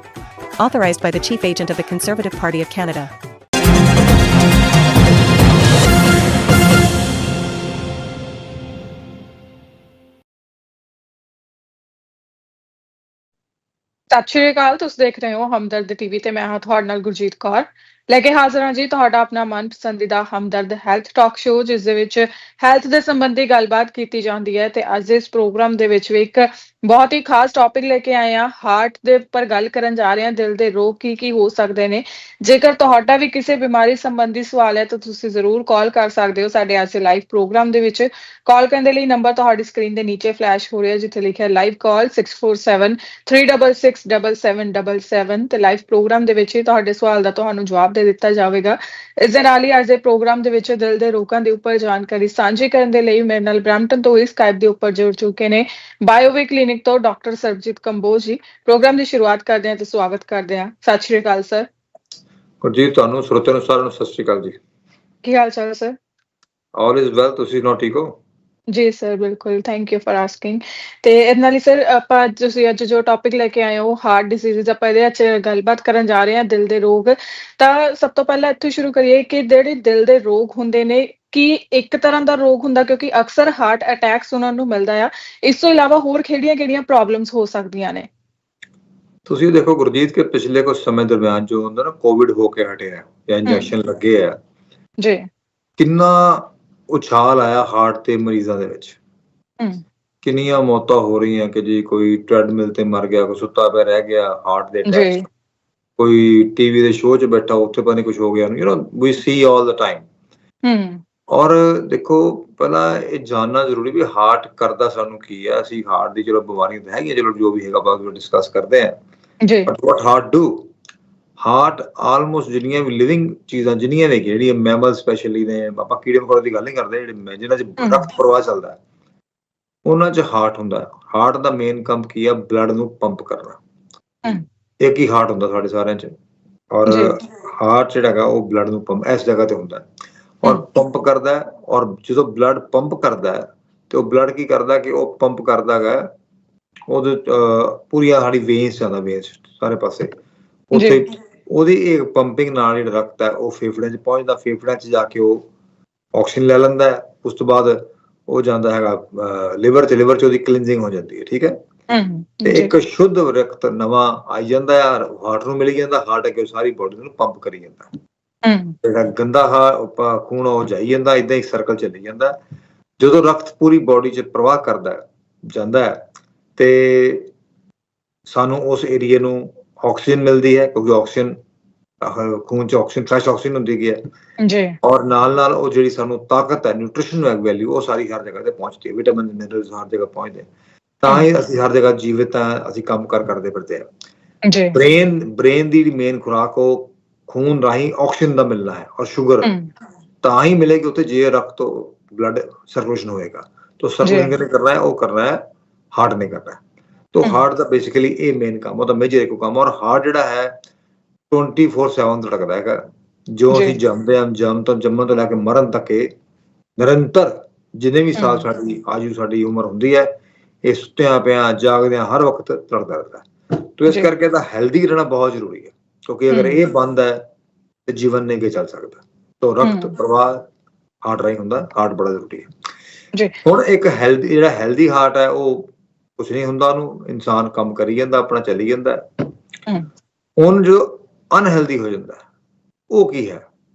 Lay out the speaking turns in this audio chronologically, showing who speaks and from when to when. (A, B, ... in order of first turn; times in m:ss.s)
0:00.6-0:03.1 A
0:14.1-1:01.7 B
1:02.6-1:04.6 C
1:05.2-1:06.0 B
1:06.8-1:08.1 C
1:08.7-1:28.1 B
1:29.2-1:34.4 C
1:35.8-1:39.0 C
1:40.2-1:45.3 C
1:44.9-1:45.2 B
1:46.0-1:50.0 C
1:50.6-1:51.0 B
1:51.3-1:58.9 C
1:59.6-2:00.7 C
2:01.4-2:08.8 C
2:07.8-2:08.1 B
2:09.8-2:13.6 C
2:14.8-2:16.1 C
2:16.7-2:19.8 C
2:20.4-2:26.1 C
2:26.9-2:30.1 C
2:30.7-2:35.4 C
2:30.8-2:31.0 B
2:36.2-2:41.5 C
2:41.9-2:42.7 B
2:42.4-2:47.9 C
2:48.4-2:48.8 B
2:48.8-2:52.3 C
2:53.0-2:56.0 C
2:56.6-2:57.3 C
2:58.3-3:01.3 C
3:02.0-3:04.0 C
3:04.4-3:04.7 B
3:04.8-3:10.4 C
3:11.0-3:13.8 C
3:14.5-3:14.7 B
3:14.7-3:19.5 C
3:20.2-3:25.4 C
3:24.0-3:24.3 B
3:25.9-3:26.6 C
3:27.1-3:30.5 C
3:31.3-3:32.8 C
3:33.3-3:36.1 C
3:36.8-3:40.1 C
3:38.2-3:38.4 B
3:40.6-3:47.2 C
3:46.3-3:46.6 B
3:47.9-3:50.4 C
3:49.6-3:49.9 B
3:51.0-3:52.5 C
3:53.4-3:59.3 C
4:00.4-4:02.2 C
4:02.9-4:03.4 C